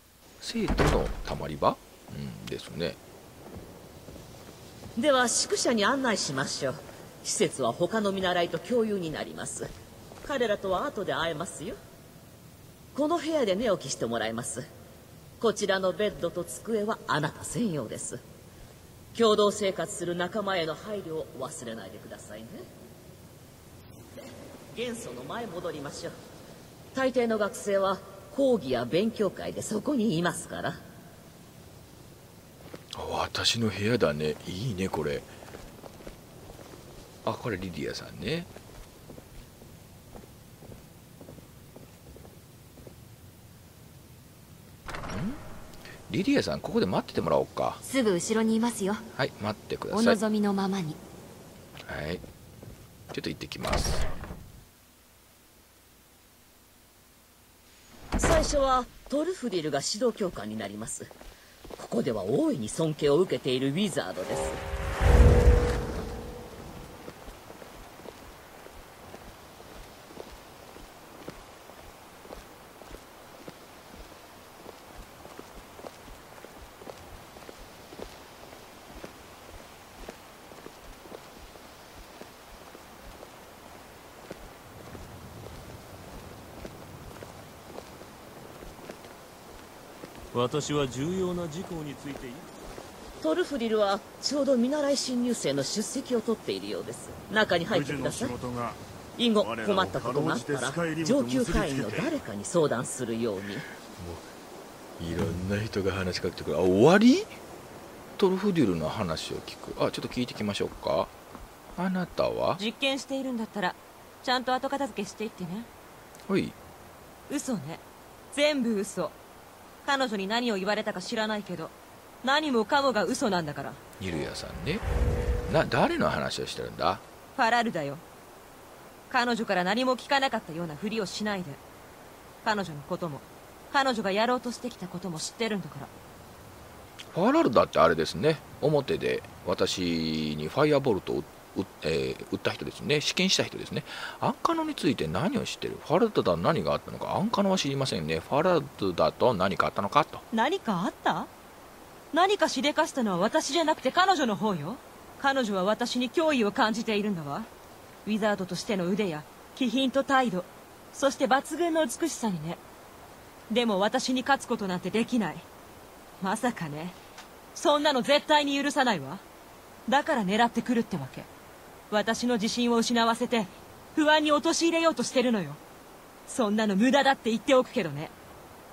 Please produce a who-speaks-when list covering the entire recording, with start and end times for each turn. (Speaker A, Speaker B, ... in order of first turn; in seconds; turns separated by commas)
Speaker A: 0.4-3.0, Speaker B: 5.0-9.7, Speaker B: 10.2-11.8, Speaker B: 12.9-14.6, Speaker B: 15.4-18.2, Speaker B: 19.1-22.6, Speaker B: 24.1-26.1, Speaker B: 26.9-30.8, Speaker A: 32.9-35.3, Speaker A: 37.2-38.5, Speaker A: 45.1-45.4, Speaker A: 46.1-47.8, Speaker C: 47.8-49.0, Speaker A: 49.1-50.1, Speaker C: 49.9-51.0, Speaker A: 51.9-52.2, Speaker A: 53.1-54.1, Speaker B: 58.2-61.1, Speaker B: 61.8-64.6, Speaker D: 90.3-92.5, Speaker B: 93.2-98.3, Speaker E: 97.7-98.8, Speaker B: 99.2-103.7, Speaker E: 99.3-102.2, Speaker A: 104.0-104.2, Speaker A: 105.0-107.4, Speaker A: 108.2-111.1, Speaker A: 111.8-112.6, Speaker F: 112.6-115.7, Speaker A: 116.3-116.6, Speaker F: 117.3-117.8, Speaker F: 118.3-119.2, Speaker F: 119.8-123.8, Speaker A: 124.0-124.8, Speaker A: 125.5-127.0, Speaker F: 127.3-128.0, Speaker F: 129.1-131.6, Speaker F: 132.4-135.9, Speaker A: 137.1-150.2, Speaker F: 150.3-151.3, Speaker F: 152.1-157.5, Speaker F: 158.0-162.6, Speaker F: 163.5-165.4, Speaker F: 166.2-167.0, Speaker F: 167.6-169.2, Speaker F: 169.9-171.3, Speaker F: 171.9-175.6, Speaker F: 176.3-178.1